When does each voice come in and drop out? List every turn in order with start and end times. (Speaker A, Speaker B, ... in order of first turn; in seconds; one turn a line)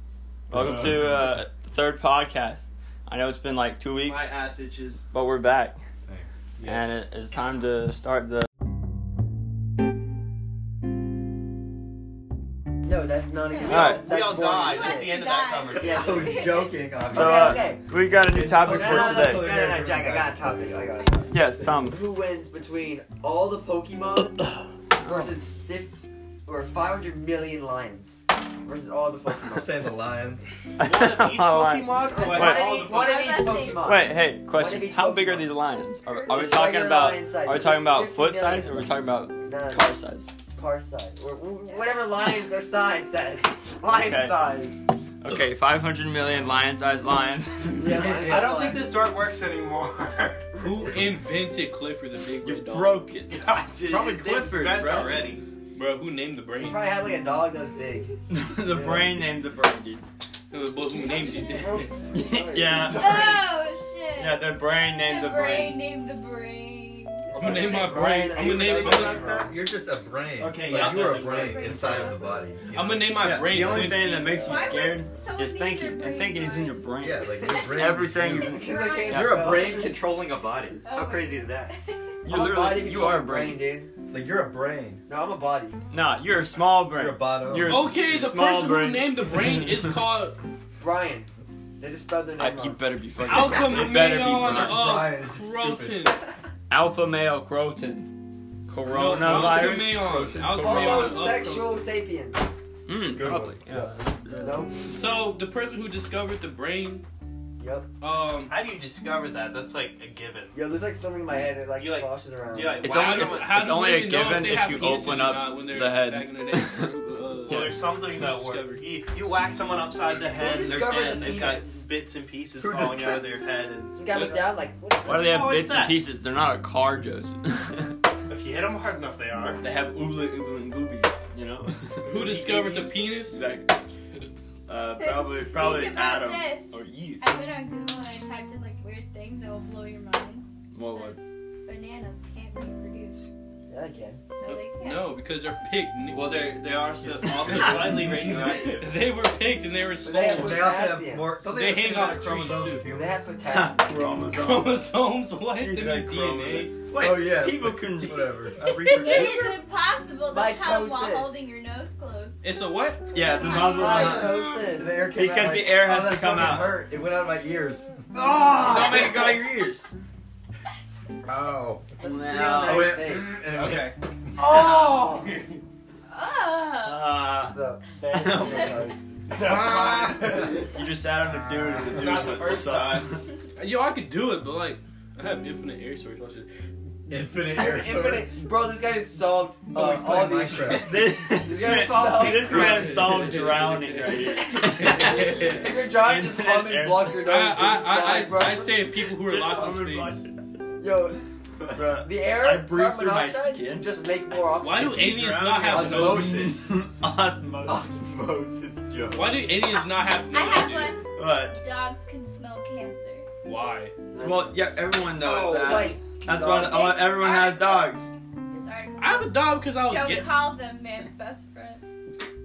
Speaker A: 0.5-1.3
Speaker B: 0.5-4.3
Speaker C: 4.0-5.1
Speaker B: 5.1-5.8
Speaker A: 6.0-6.3
Speaker D: 6.6-7.1
Speaker B: 6.6-8.5
Speaker E: 12.8-15.2
Speaker F: 13.5-13.9
Speaker C: 13.6-16.4
Speaker B: 13.7-14.1
Speaker F: 14.6-16.8
Speaker A: 15.8-17.7
Speaker E: 15.8-16.3
Speaker E: 17.1-17.9
Speaker B: 17.1-19.5
Speaker A: 18.3-21.0
Speaker E: 18.6-24.4
Speaker F: 21.0-21.3
Speaker B: 21.3-22.0
Speaker A: 21.5-21.8
Speaker E: 24.9-29.7
Speaker A: 29.6-30.5
Speaker B: 30.8-32.7
Speaker C: 30.8-33.1
Speaker F: 32.0-34.0
Speaker E: 32.2-35.6
Speaker B: 33.7-40.3
Speaker F: 36.1-36.6
Speaker E: 36.3-40.0
Speaker E: 40.5-44.8
Speaker F: 41.7-42.1
Speaker B: 43.9-44.4
Speaker B: 45.2-48.1
Speaker E: 47.8-49.0
Speaker C: 47.9-50.5
Speaker D: 50.5-53.0
Speaker B: 52.4-55.3
Speaker C: 53.3-55.4
Speaker D: 55.7-56.9
Speaker E: 56.6-58.2
Speaker B: 58.3-60.0
Speaker E: 58.7-59.2
Speaker D: 60.5-61.9
Speaker E: 60.9-63.1
Speaker F: 61.2-61.8
Speaker B: 62.1-63.2
Speaker F: 62.9-67.9
Speaker B: 64.2-65.9
Speaker E: 67.3-69.6
Speaker D: 67.3-69.2
Speaker A: 68.3-73.4
Speaker C: 70.4-71.6
Speaker F: 70.6-72.6
Speaker D: 72.7-74.4
Speaker B: 73.2-77.2
Speaker E: 73.6-75.2
Speaker F: 74.4-79.8
Speaker A: 77.0-81.8
Speaker B: 77.8-78.4
Speaker E: 78.4-80.0
Speaker B: 79.1-79.5
Speaker F: 80.8-82.2
Speaker B: 82.2-83.6
Speaker E: 82.3-83.9
Speaker A: 84.1-85.0
Speaker E: 85.1-85.8
Speaker B: 85.9-89.2
Speaker A: 86.9-87.8
Speaker D: 87.6-90.4
Speaker E: 90.8-91.3
Speaker E: 91.8-92.8
Speaker B: 92.4-95.0
Speaker D: 93.2-96.2
Speaker A: 94.5-96.2
Speaker B: 96.7-98.1
Speaker B: 98.7-100.0
Speaker D: 98.8-101.8
Speaker A: 99.3-101.3
Speaker E: 100.5-102.5
Speaker B: 102.9-104.7
Speaker A: 103.2-103.9
Speaker E: 104.4-105.1
Speaker D: 104.9-107.0
Speaker E: 107.6-107.9
Speaker D: 108.0-108.6
Speaker C: 108.5-110.6
Speaker E: 110.5-112.9
Speaker C: 111.8-113.6
Speaker D: 112.8-118.9
Speaker B: 112.8-116.9
Speaker C: 117.5-124.3
Speaker E: 120.3-121.8
Speaker A: 122.6-123.2
Speaker E: 124.0-125.4
Speaker D: 124.1-124.6
Speaker C: 125.0-126.0
Speaker B: 125.1-128.0
Speaker C: 128.3-129.6
Speaker B: 129.6-133.8
Speaker D: 132.1-133.4
Speaker B: 134.7-137.3
Speaker F: 134.9-143.3
Speaker B: 140.7-141.2
Speaker E: 143.7-144.2
Speaker F: 144.4-145.2
Speaker D: 144.4-146.6
Speaker C: 146.1-148.9
Speaker B: 147.0-147.9
Speaker D: 147.3-150.7
Speaker E: 150.0-151.3
Speaker A: 150.1-153.2
Speaker D: 151.5-152.9
Speaker E: 152.9-153.9
Speaker B: 153.5-154.8
Speaker D: 154.3-156.7
Speaker B: 155.6-158.4
Speaker A: 156.9-159.6
Speaker F: 158.8-162.5
Speaker E: 160.3-161.6
Speaker D: 162.4-163.1
Speaker B: 163.1-164.2
Speaker F: 163.1-164.4
Speaker E: 163.7-165.8
Speaker A: 163.9-169.4
Speaker B: 165.1-166.7
Speaker B: 168.2-169.8
Speaker A: 171.3-172.0
Speaker B: 172.0-173.0
Speaker E: 172.0-173.4
Speaker A: 172.7-173.9
Speaker C: 173.5-174.0
Speaker E: 174.4-175.4
Speaker F: 176.1-177.1
Speaker B: 176.8-179.0
Speaker E: 177.4-178.9
Speaker C: 178.4-180.6
Speaker A: 179.5-179.9
Speaker B: 180.6-183.2
Speaker A: 181.5-182.0
Speaker D: 181.9-183.0
Speaker C: 182.0-183.1
Speaker D: 183.6-186.5
Speaker A: 187.1-188.4
Speaker E: 187.4-193.0
Speaker A: 189.7-191.0
Speaker B: 190.7-197.2
Speaker A: 191.7-192.8
Speaker D: 192.4-195.7
Speaker E: 194.9-198.8
Speaker D: 197.2-200.2
Speaker B: 199.1-200.7
Speaker E: 200.8-201.2
Speaker B: 201.7-203.9
Speaker E: 202.0-205.3
Speaker D: 204.6-206.5
Speaker C: 205.0-206.3
Speaker A: 205.7-206.7
Speaker B: 206.2-208.0
Speaker A: 207.7-209.5
Speaker D: 209.1-211.0
Speaker F: 210.3-213.3
Speaker B: 211.2-211.6
Speaker D: 213.4-213.9
Speaker E: 214.1-214.6
Speaker B: 214.2-218.1
Speaker E: 215.2-217.0
Speaker A: 215.3-215.9
Speaker F: 216.6-218.0
Speaker F: 218.5-221.8
Speaker D: 219.0-220.3